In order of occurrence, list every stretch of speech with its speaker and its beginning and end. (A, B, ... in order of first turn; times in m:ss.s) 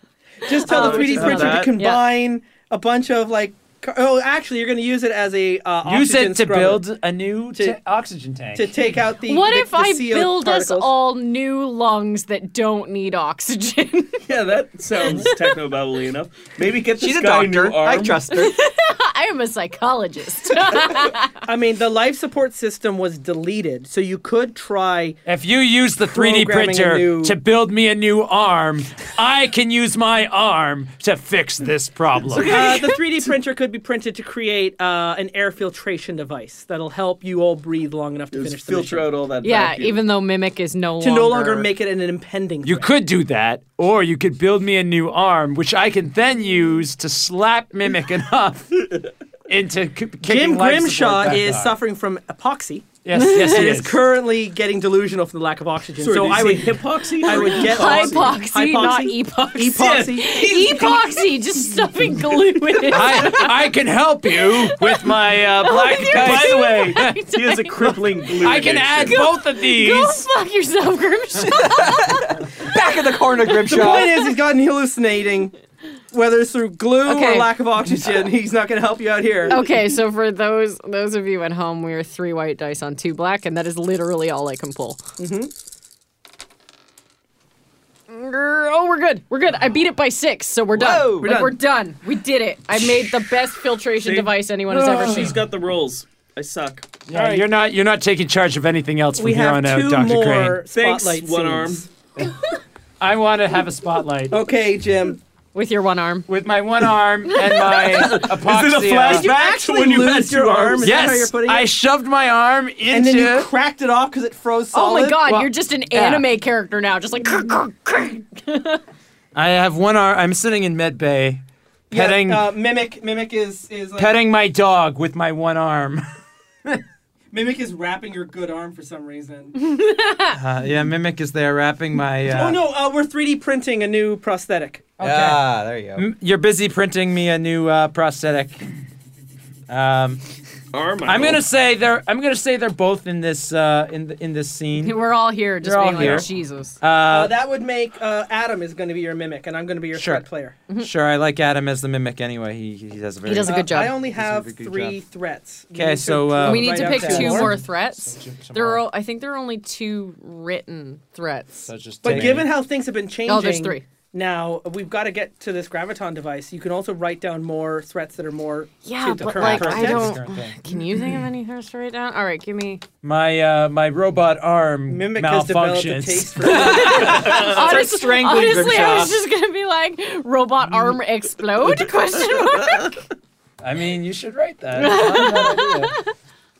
0:00.4-0:06.8 A
0:00.4-0:02.0 B
0:00.7-0:01.7 C
0:05.8-0:08.8 D
0:08.5-0:10.9 A
0:09.2-0:14.2 B
0:14.2-0:18.2 C
0:15.0-0:15.5 B
0:17.0-0:18.6 E
0:18.3-0:21.3 B
0:21.4-0:25.2 A
0:25.2-0:32.8 D
0:26.1-0:27.4 A
0:32.3-0:33.0 C
0:32.5-0:39.1 A
0:38.3-0:40.0 C
0:39.4-0:41.7 B
0:41.0-0:42.9 A
0:42.6-0:51.8 D
0:50.2-1:00.4 A
0:53.0-0:54.0 D
0:53.1-0:53.7 B
0:56.0-0:58.4 C
0:57.2-1:03.5 B
1:00.2-1:01.2 C
1:02.9-1:07.2 D
1:04.2-1:08.0 B
1:06.0-1:09.3 C
1:08.4-1:10.3 D
1:09.0-1:12.4 B
1:11.5-1:14.2 E
1:13.4-1:14.0 B
1:13.7-1:15.5 A
1:16.1-1:19.6 A
1:17.0-1:17.5 B
1:19.5-1:25.0 B
1:25.2-1:25.5 A
1:28.1-1:35.4 B
1:30.8-1:31.5 E
1:34.0-1:37.0 C
1:37.1-1:40.6 D
1:37.1-1:37.4 A
1:39.2-1:41.9 A
1:40.7-1:41.8 C
1:43.0-1:44.4 D
1:44.3-1:45.2 A
1:45.5-1:46.3 B
1:46.3-1:49.3 D
1:47.3-1:47.6 B
1:47.6-1:51.1 C
1:49.0-1:51.7 A
1:50.8-1:53.5 D
1:52.9-1:55.3 A
1:54.7-1:58.8 B
1:55.2-1:56.2 D
1:59.3-2:02.5 D
2:01.9-2:04.1 A
2:04.0-2:06.0 D
2:07.3-2:09.5 A
2:09.6-2:10.4 B
2:10.3-2:12.6 D
2:12.3-2:14.9 A
2:15.0-2:15.4 D
2:15.0-2:16.1 E
2:15.9-2:18.7 D
2:19.7-2:20.2 D
2:20.7-2:21.4 C
2:21.0-2:25.0 D
2:24.8-2:26.8 B
2:25.6-2:26.3 D
2:26.8-2:27.3 D
2:27.1-2:30.6 A
2:29.9-2:30.2 D
2:30.8-2:35.0 D
2:33.2-2:34.0 B
2:33.4-2:37.6 A
2:35.7-2:38.8 D
2:36.4-2:41.7 B
2:41.6-2:42.5 D
2:42.0-2:50.2 A
2:43.2-2:43.8 B
2:48.8-2:52.8 B
2:49.3-2:50.6 D
2:53.0-2:57.4 D
2:54.9-2:57.5 A
2:56.5-3:03.0 B
2:57.0-2:59.2 E
3:03.6-3:05.9 D
3:04.8-3:06.1 B